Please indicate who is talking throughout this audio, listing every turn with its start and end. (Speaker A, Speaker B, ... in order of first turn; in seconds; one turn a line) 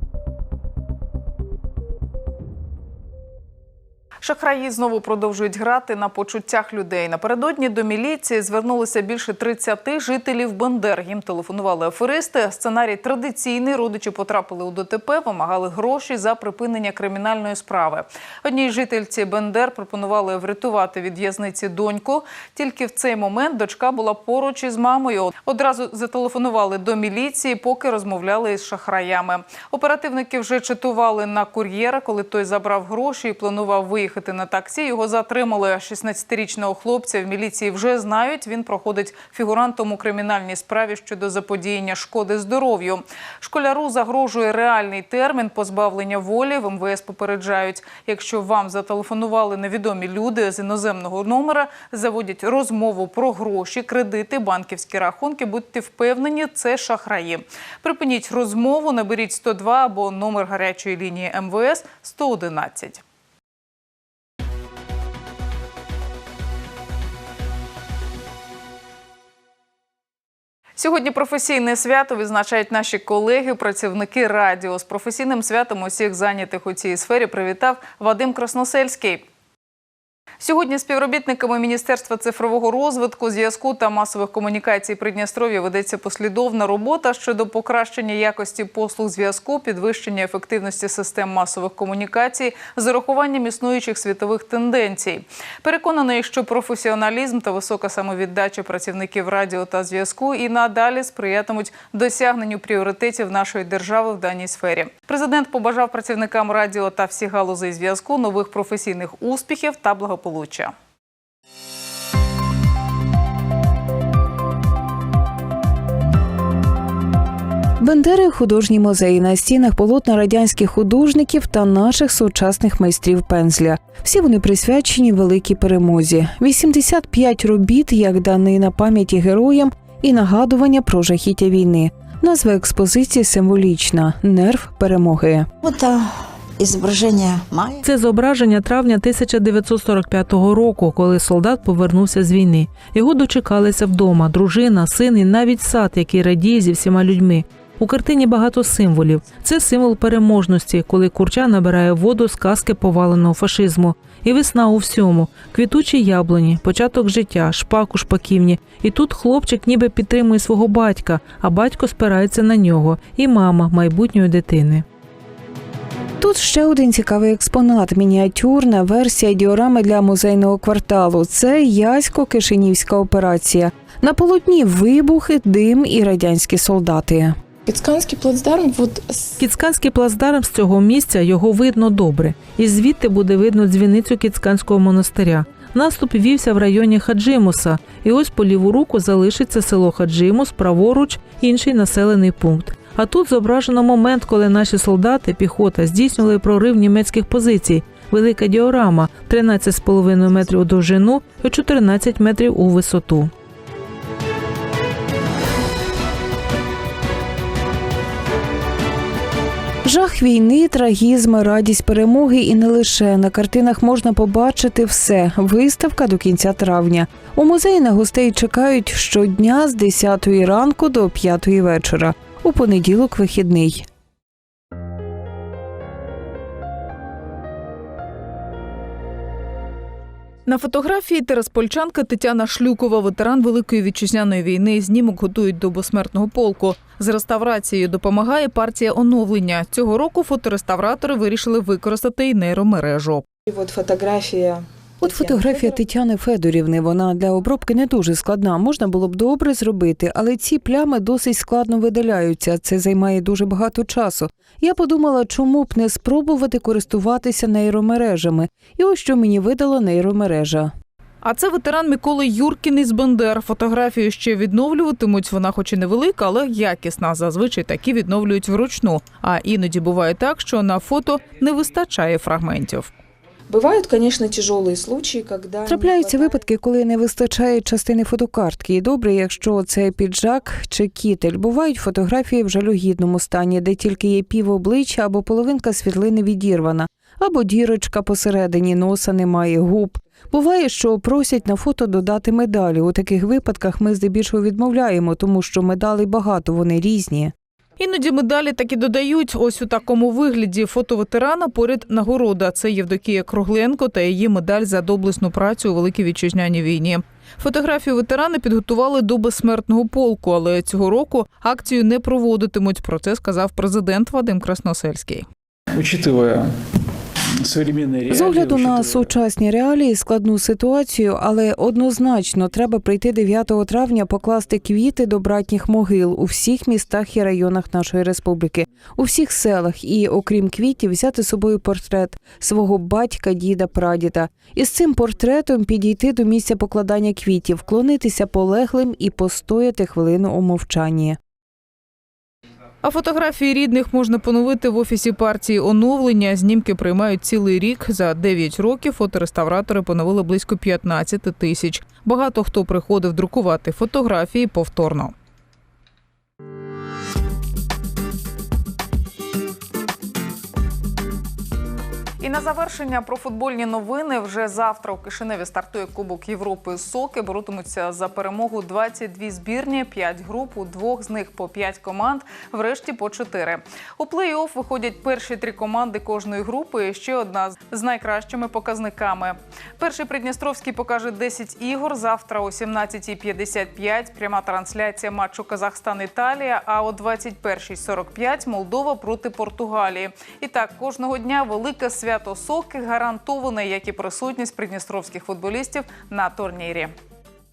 Speaker A: 4.2-63.0
Speaker A: 70.8-79.2
Speaker A: 80.4-110.7
Speaker B: 117.8-135.5
Speaker C: 135.6-137.8
Speaker D: 137.8-164.8
Speaker B: 166.2-177.4
Speaker E: 177.7-179.4
Speaker D: 179.4-203.3
Speaker B: 209.8-223.8
Speaker A: 230.5-243.2
Speaker E: 243.5-245.7
Speaker B: 245.0-260.7
Speaker A: 261.2-272.9
Speaker E: 273.5-276.4
Speaker B: 275.6-297.3
Speaker A: 297.8-315.3
Speaker F: 315.7-316.5
Speaker F: 317.4-319.1
Speaker B: 318.1-341.2
Speaker A: 342.8-355.1
Speaker A: 362.2-396.9